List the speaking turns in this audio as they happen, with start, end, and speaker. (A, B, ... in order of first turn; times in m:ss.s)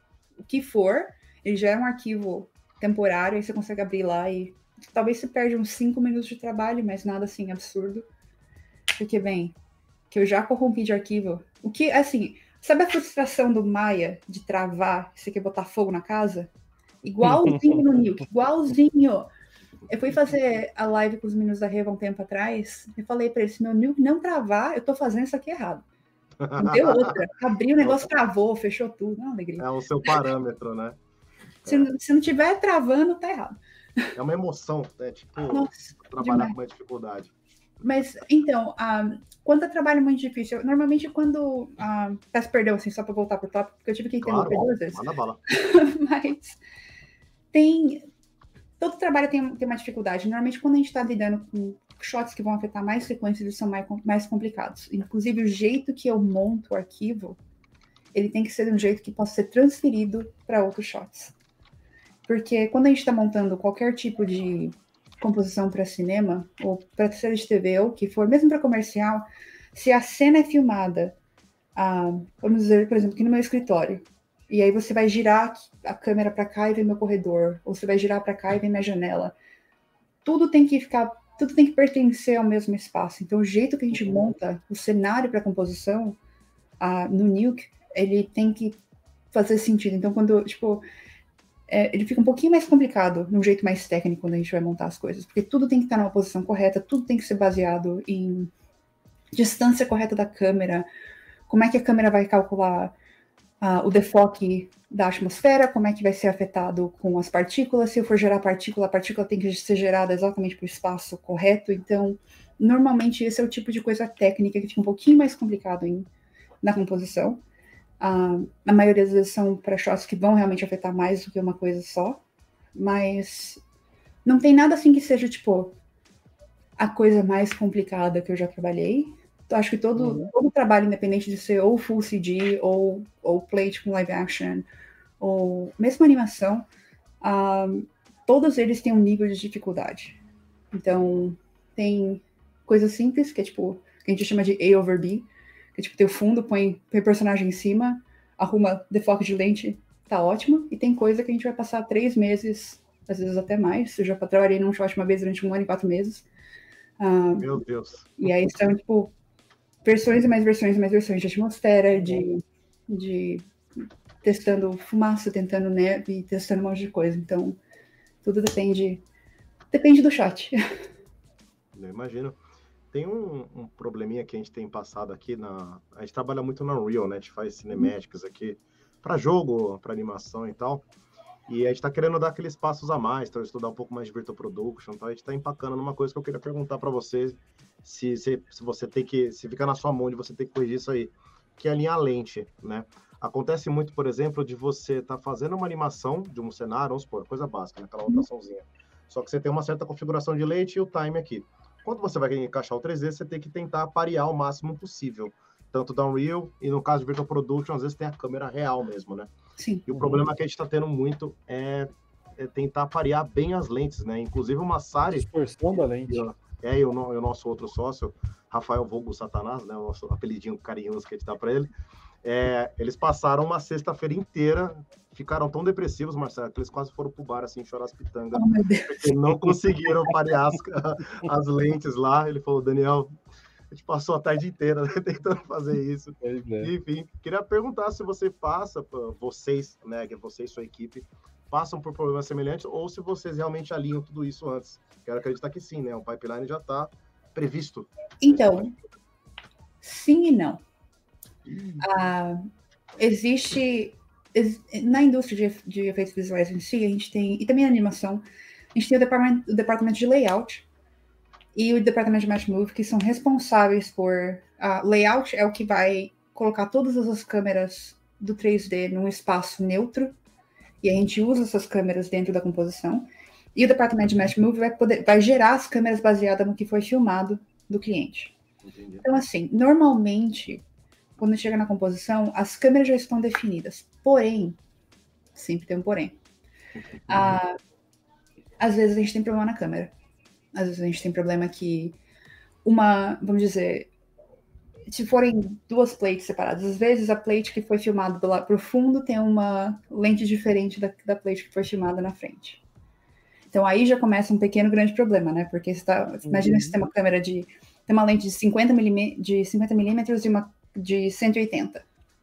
0:00.4-0:08.0 A
0:09.0-0:09.6 A
0:10.1-0:16.5 A
0:17.0-0:19.3 A
0:17.2-0:17.8 B
0:19.9-0:25.8 A
0:26.4-0:27.2 C
0:26.6-0:30.2 A
0:27.8-0:28.1 C
0:29.6-0:31.0 C
0:31.6-0:31.9 C
0:31.6-0:34.0 A
0:34.2-0:37.3 C
0:35.5-0:36.5 A
0:37.8-0:46.6 A
0:44.2-0:45.4 C
0:47.5-0:48.0 A
0:48.8-0:57.4 A
0:58.1-1:01.3 A
1:02.2-1:11.2 A
1:11.8-1:19.3 A
1:20.2-1:26.2 A
1:26.8-1:28.8 A
1:29.3-1:30.8 A
1:31.7-1:38.5 A
1:39.3-1:40.9 A
1:41.5-1:42.9 A
1:43.6-1:56.1 A
1:56.6-1:57.4 A
1:58.0-2:02.2 A
2:02.7-2:03.6 A
2:04.2-2:05.8 A
2:06.8-2:14.6 A
2:10.0-2:10.3 B
2:15.2-2:16.6 A
2:17.2-2:20.2 A
2:20.7-2:36.2 A
2:37.0-2:37.6 A
2:37.4-2:38.3 C
2:38.2-2:39.1 A
2:39.8-2:43.4 A
2:44.2-2:47.6 A
2:48.2-2:49.0 A
2:49.7-2:50.6 A
2:51.7-2:52.4 C
2:52.9-3:00.8 C
3:01.5-3:29.3 C
3:29.6-3:29.9 A
3:29.9-3:35.3 C
3:29.9-3:30.2 B
3:35.1-3:36.2 B
3:36.0-3:41.7 C
3:42.2-3:53.1 C
3:48.3-3:49.1 A
3:53.7-4:08.8 C
3:56.2-3:56.7 B
4:08.2-4:08.7 A
4:09.8-4:10.6 A
4:11.5-4:11.8 B
4:11.8-4:12.5 A
4:13.0-4:18.2 A
4:18.7-4:20.6 A
4:21.5-4:30.2 A
4:30.8-4:38.4 A
4:38.6-4:39.0 C
4:39.0-4:40.6 A
4:41.2-4:44.6 A
4:45.3-4:46.2 A
4:47.1-4:47.6 A
4:48.6-4:49.9 A
4:50.5-4:52.0 A
4:52.6-4:53.9 A
4:54.9-5:02.6 A
5:03.5-5:11.8 A
5:06.2-5:06.8 B